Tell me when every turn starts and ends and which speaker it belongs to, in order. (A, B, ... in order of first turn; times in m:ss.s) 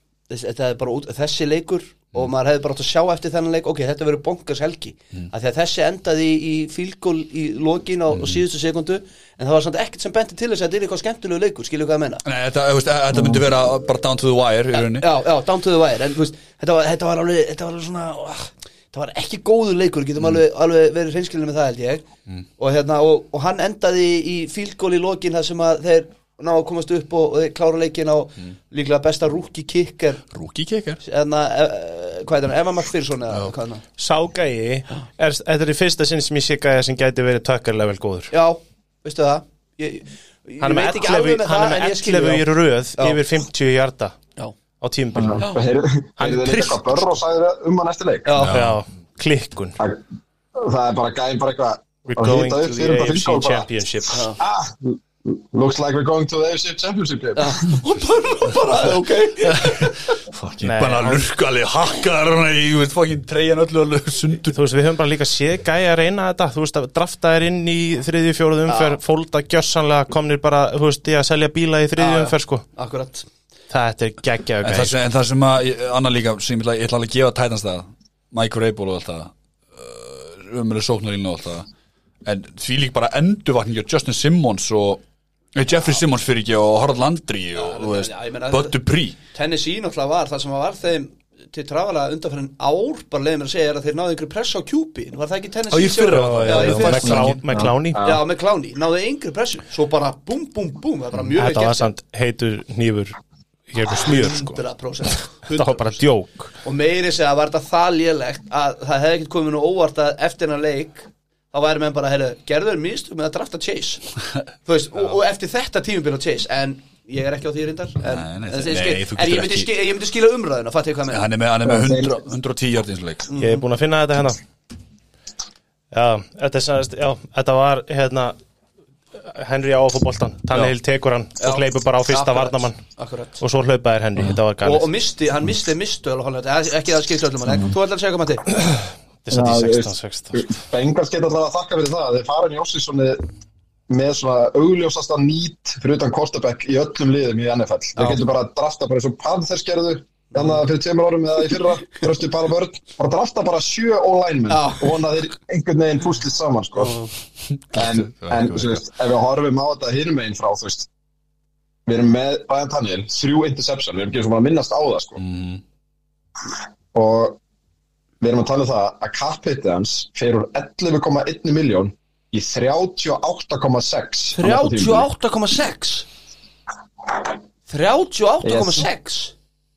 0:00.3-0:12.2 A
0:08.1-0:08.4 B
0:12.2-0:15.1 B
0:14.7-0:22.0 A
0:22.6-0:30.2 A
0:30.3-0:31.0 B
0:31.0-0:33.8 A
0:34.0-0:38.3 C
0:38.3-0:42.4 A
0:40.6-0:44.2 C
0:44.8-0:45.5 C
0:45.2-0:48.3 D
0:46.2-0:47.0 C
0:48.2-0:48.6 A
0:48.4-0:48.8 B
0:48.5-0:49.8 C
0:49.8-0:50.0 D
0:50.6-0:53.7 D
0:52.0-0:54.3 C
0:54.1-0:54.4 A
0:54.4-0:57.8 D
0:57.3-1:00.2 A
0:59.4-1:04.6 B
1:00.6-1:01.2 C
1:04.5-1:12.6 C
1:08.7-1:09.0 A
1:12.0-1:13.2 A
1:13.7-1:14.9 C
1:14.6-1:21.7 B
1:22.2-1:25.0 B
1:25.5-1:29.2 B
1:27.5-1:28.8 A
1:29.3-1:37.3 A
1:35.7-1:37.4 B
1:36.1-1:38.1 C
1:37.0-1:38.2 D
1:38.0-1:41.9 A
1:41.3-1:43.2 C
1:43.7-1:46.5 C
1:43.8-1:45.8 A
1:46.6-1:54.0 A
1:54.6-2:01.2 A
1:58.0-1:59.7 B
2:01.1-2:03.3 B
2:01.6-2:02.2 D
2:03.3-2:03.6 A
2:03.4-2:04.4 C
2:05.9-2:08.4 C
2:09.2-2:12.8 C
2:11.4-2:13.4 A
2:13.4-2:14.9 C
2:14.6-2:18.5 A
2:19.2-2:20.5 C
2:19.3-2:23.2 D
2:23.9-2:37.0 D
2:28.0-2:28.2 A
2:30.3-2:30.6 A
2:34.5-2:35.0 A
2:36.8-2:37.1 A
2:37.7-2:38.8 B
2:37.7-2:40.9 D
2:41.8-2:45.2 D
2:45.2-2:45.6 B
2:46.9-2:47.4 D
2:48.2-2:55.1 D
2:54.3-2:56.1 A
2:57.7-2:59.3 A
2:58.4-2:58.8 D